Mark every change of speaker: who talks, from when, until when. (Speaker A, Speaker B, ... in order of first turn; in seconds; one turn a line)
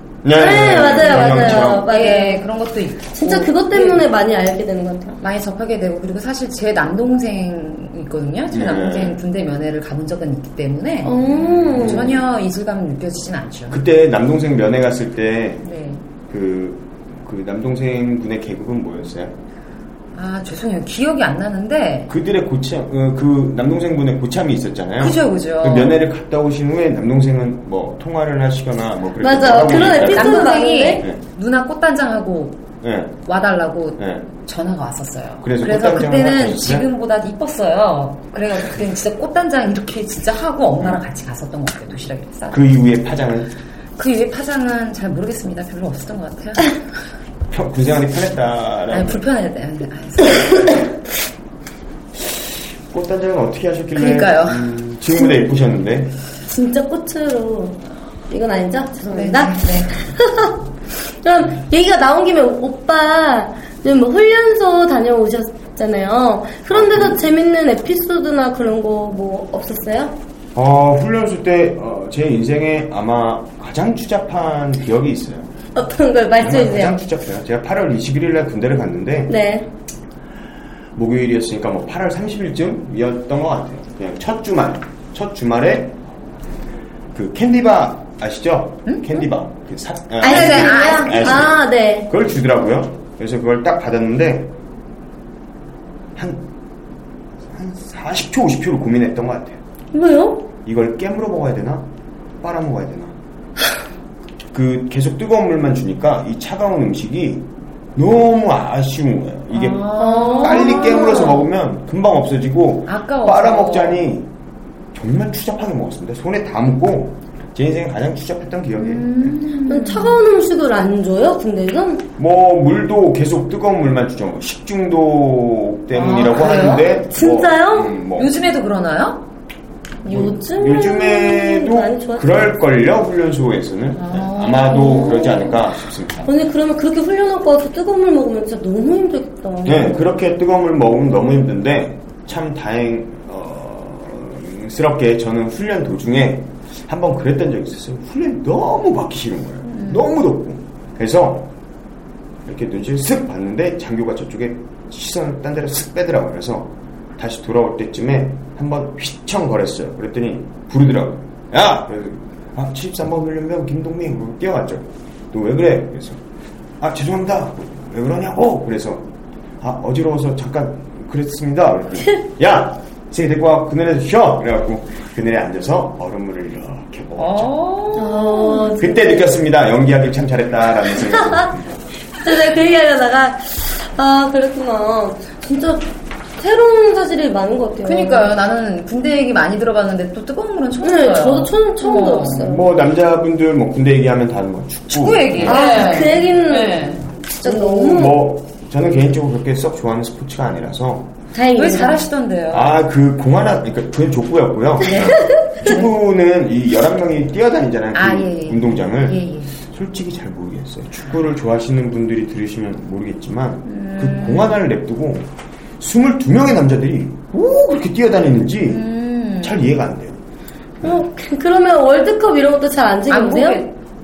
Speaker A: 0.2-1.9
Speaker B: 0.3-2.4
Speaker C: 0.5-4.0
Speaker B: 3.1-5.2
Speaker C: 5.2-11.2
Speaker A: 8.5-9.2
Speaker B: 11.0-12.1
Speaker A: 11.2-12.2
Speaker C: 11.8-13.8
Speaker A: 13.7-15.7
Speaker C: 15.6-16.0
Speaker A: 16.3-19.4
Speaker C: 20.1-22.1
Speaker A: 22.1-31.2
Speaker C: 25.0-26.0
Speaker B: 29.2-31.1
Speaker C: 30.0-32.6
Speaker A: 32.8-33.2
Speaker C: 33.2-42.7
Speaker A: 34.0-34.3
Speaker A: 35.4-36.9
Speaker A: 42.5-43.5
Speaker C: 44.0-46.8
Speaker A: 47.5-49.2
Speaker C: 48.9-50.8
Speaker A: 52.9-56.1
Speaker C: 53.9-54.7
Speaker B: 56.4-60.5
Speaker C: 59.1-60.0
Speaker B: 61.2-70.1
Speaker A: 66.7-67.3
Speaker A: 70.5-75.5
Speaker B: 75.7-77.0
Speaker A: 76.4-79.3
Speaker B: 79.3-79.7
Speaker A: 81.0-86.0
Speaker A: 87.1-94.5
Speaker C: 88.8-89.2
Speaker C: 90.2-91.5
Speaker B: 90.2-92.1
Speaker A: 96.2-96.5
Speaker A: 97.5-99.6
Speaker B: 99.9-100.5
Speaker A: 100.6-101.9
Speaker A: 102.4-103.2
Speaker A: 104.5-114.3
Speaker C: 109.5-111.5
Speaker B: 110.0-111.4
Speaker C: 112.8-114.1
Speaker A: 114.9-119.3
Speaker C: 118.8-120.2
Speaker B: 119.7-122.1
Speaker A: 122.2-128.3
Speaker B: 126.0-127.9
Speaker C: 126.0-127.0
Speaker C: 128.2-129.2
Speaker B: 130.0-132.5
Speaker A: 130.1-136.3
Speaker C: 133.9-135.5
Speaker B: 134.7-135.6
Speaker B: 136.2-140.0
Speaker A: 139.6-151.5
Speaker C: 149.7-150.1
Speaker A: 152.4-166.2
Speaker A: 166.8-169.1
Speaker A: 169.6-177.5
Speaker C: 177.2-178.8
Speaker B: 177.9-179.2
Speaker A: 178.8-181.9
Speaker B: 181.1-181.5
Speaker B: 182.2-188.3
Speaker C: 187.8-192.5
Speaker B: 190.8-192.7
Speaker A: 192.3-196.2
Speaker C: 194.9-197.1
Speaker B: 195.4-198.2
Speaker A: 197.4-201.1
Speaker B: 201.3-202.0
Speaker C: 201.5-202.8
Speaker A: 202.5-218.8
Speaker B: 204.9-205.8
Speaker C: 205.6-205.9
Speaker C: 207.9-209.5
Speaker C: 213.6-214.6
Speaker C: 218.7-219.6
Speaker A: 219.4-220.2
Speaker B: 220.8-223.6
Speaker C: 223.1-223.7